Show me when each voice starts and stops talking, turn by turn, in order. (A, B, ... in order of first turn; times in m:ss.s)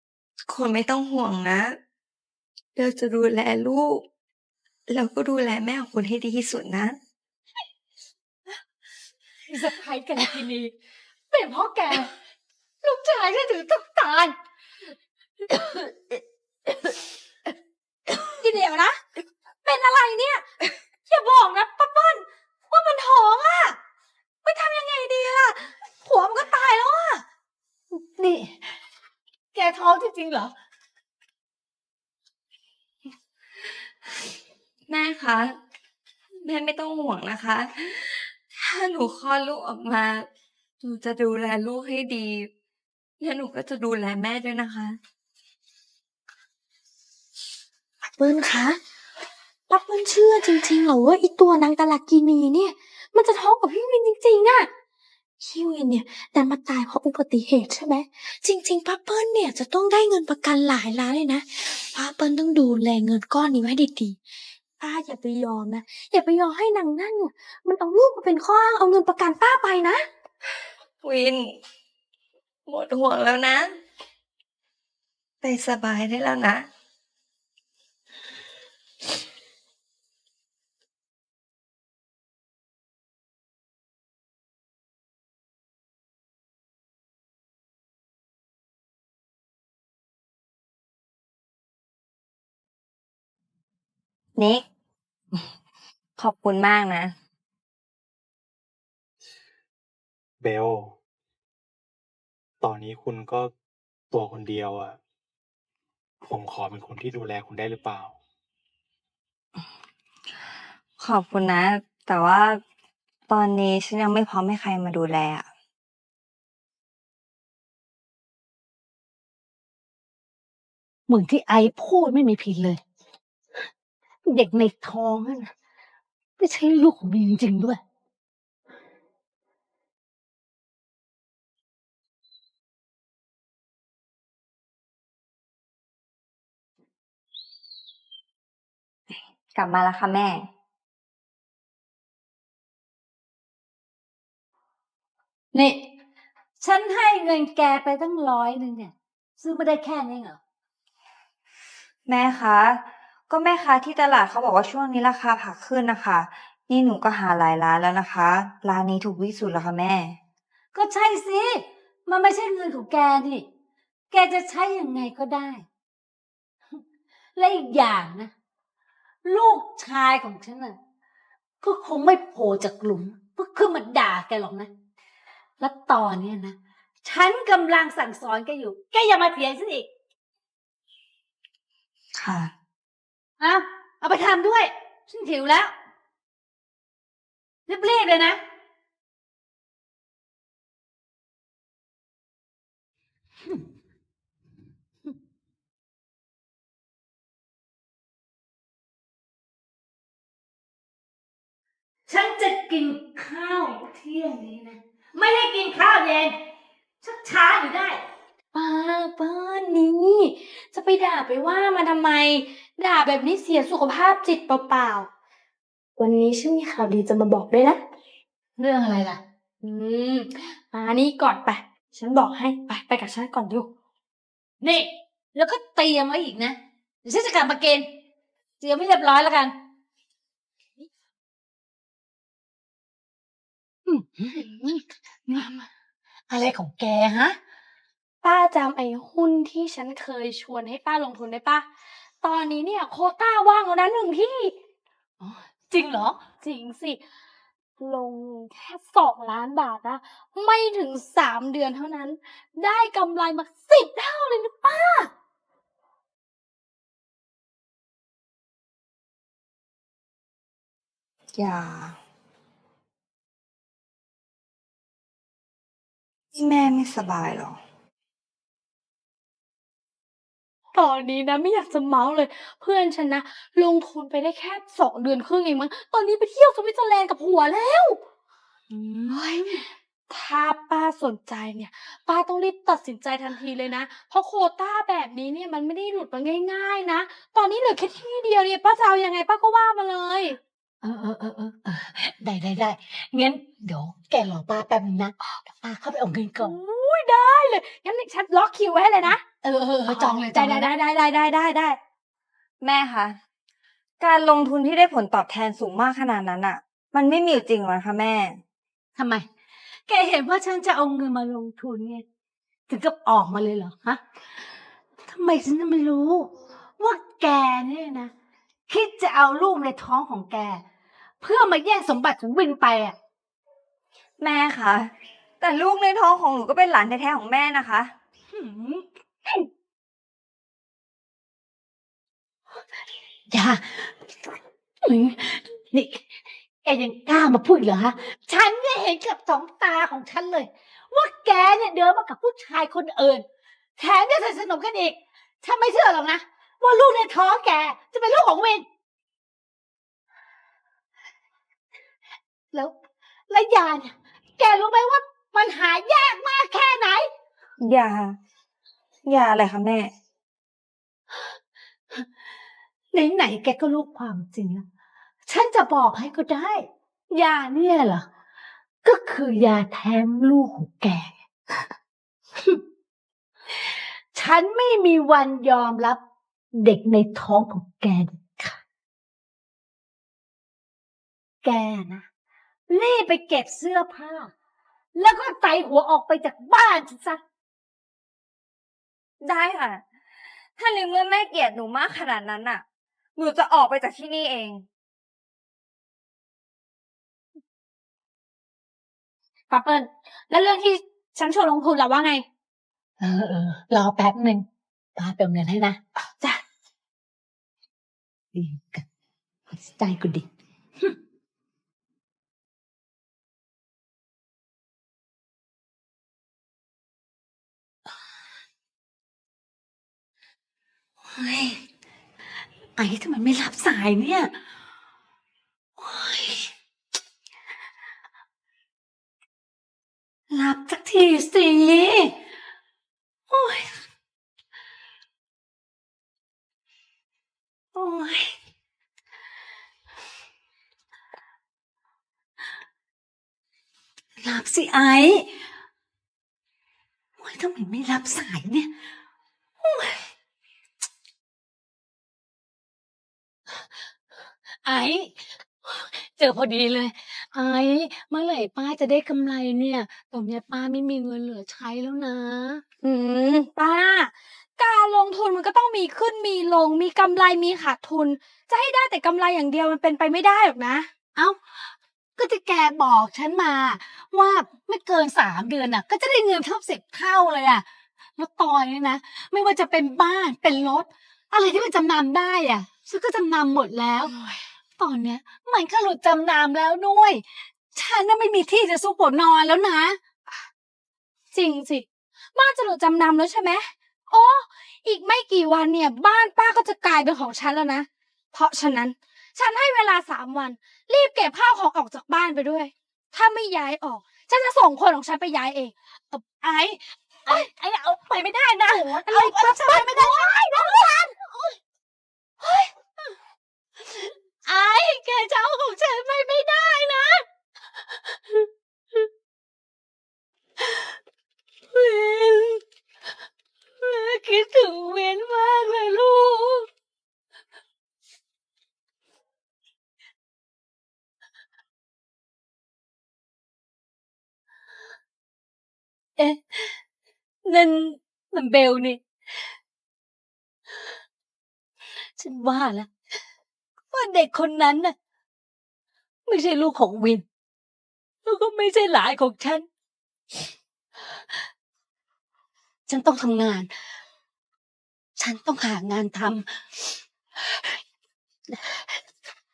0:00.5-0:01.8 A
0:02.8-0:04.0 A
0:04.9-0:07.0 A
0:09.5-0:10.7 B
0:11.3-0:12.1 C
0:11.7-0:12.0 B
0:12.8-0:14.3 C
0:18.4-0:19.0 C
0:19.6-0:20.4 C
0:21.1-0:23.8 C
0:24.4-0:27.2 C
0:27.9-0:28.8 B
0:29.5-0:30.5 B
0:34.9-0:35.6 A
0:36.4-0:40.3 A
0:40.8-0:42.5 A
0:43.2-0:45.0 A
0:48.2-0:48.8 C
0:49.7-0:54.7 C
0:55.4-1:04.2 C
1:04.8-1:10.0 C
1:11.0-1:11.6 A
1:12.7-1:13.8 A
1:15.4-1:16.7 A
1:34.4-1:34.6 A
1:36.2-1:37.1 A
1:40.4-1:41.0 D
1:42.6-1:43.5 D
1:44.1-1:45.0 D
1:46.2-1:48.2 D
1:51.0-1:52.6 A
1:53.3-1:55.5 A
2:01.1-2:02.8 B
2:04.3-2:05.5 B
2:06.4-2:07.8 B
2:19.6-2:20.5 A
2:25.5-2:25.8 C
2:26.6-2:30.4 B
2:32.1-2:40.2 A
2:40.7-2:43.5 B
2:44.1-2:45.6 B
2:47.4-2:48.3 B
2:49.2-2:50.8 B
2:51.6-2:54.7 B
2:55.6-2:59.9 B
3:02.2-3:02.5 A
3:03.4-3:05.7 B
3:07.7-3:08.4 B
3:22.1-3:26.4 B
3:27.0-3:28.0 B
3:28.5-3:35.1 C
3:36.0-3:37.8 C
3:38.6-3:39.2 B
3:39.6-3:43.7 C
3:44.6-3:47.9 B
3:48.6-3:49.6 B
3:53.9-3:54.8 B
3:55.3-3:55.5 B
3:55.4-3:55.6 C
3:56.3-3:57.4 B
3:58.2-4:01.6 C
4:02.2-4:04.5 C
4:05.2-4:06.2 B
4:06.4-4:07.0 C
4:07.8-4:15.1 C
4:21.4-4:22.0 A
4:26.3-4:27.6 A
4:30.8-4:38.0 C
4:38.7-4:39.6 B
4:39.1-4:50.4 C
4:50.8-4:56.5 B
4:56.4-4:59.2 C
4:59.4-5:00.7 B
4:59.9-5:01.8 C
5:02.6-5:03.2 A
5:04.0-5:08.4 A
5:09.0-5:09.2 B
5:09.9-5:12.0 B
5:12.7-5:14.0 B
5:15.1-5:18.1 B
5:18.7-5:20.6 B
5:21.2-5:23.0 B
5:24.2-5:27.9 A
5:28.3-5:28.9 B
5:33.3-5:34.0 B
5:34.8-5:43.2 B
5:43.8-5:48.7 B
5:53.3-5:57.1 B
5:57.6-5:58.2 A
5:59.1-5:59.9 A
6:02.9-6:04.7 B
6:05.3-6:08.1 B
6:08.8-6:11.7 B
6:13.5-6:16.0 B
6:16.5-6:18.6 B
6:21.4-6:22.1 B
6:22.7-6:24.3 B
6:25.0-6:27.2 B
6:29.2-6:29.8 A
6:30.6-6:32.6 A
6:33.2-6:34.7 A
6:39.5-6:42.2 C
6:43.0-6:44.4 B
6:45.0-6:45.8 B
6:48.3-6:48.8 B
6:49.5-6:50.3 B
7:01.1-7:01.6 B
7:02.8-7:04.3 B
7:05.8-7:06.5 B
7:10.3-7:12.2 B
7:13.3-7:13.8 B
7:17.8-7:18.4 B
7:24.2-7:25.4 B
7:27.2-7:28.7 B
7:29.6-7:30.1 B
7:34.6-7:42.6 B
7:42.8-7:50.9 C
7:51.2-7:57.6 B
7:58.2-8:04.2 B
8:04.8-8:10.0 B
8:11.3-8:25.7 C
8:26.1-8:31.6 B
8:28.6-8:31.0 C
8:32.4-8:32.7 C
8:33.9-8:37.2 B
8:38.1-8:39.0 B
8:40.6-8:40.9 B
8:41.7-8:42.6 B
8:43.8-8:46.7 B
8:56.2-8:56.8 B
8:57.4-8:59.5 B
9:02.0-9:02.9 B
9:03.9-9:04.9 B
9:06.2-9:07.2 B
9:08.2-9:09.7 B
9:12.9-9:13.7 B
9:15.2-9:17.8 B
9:18.5-9:19.0 B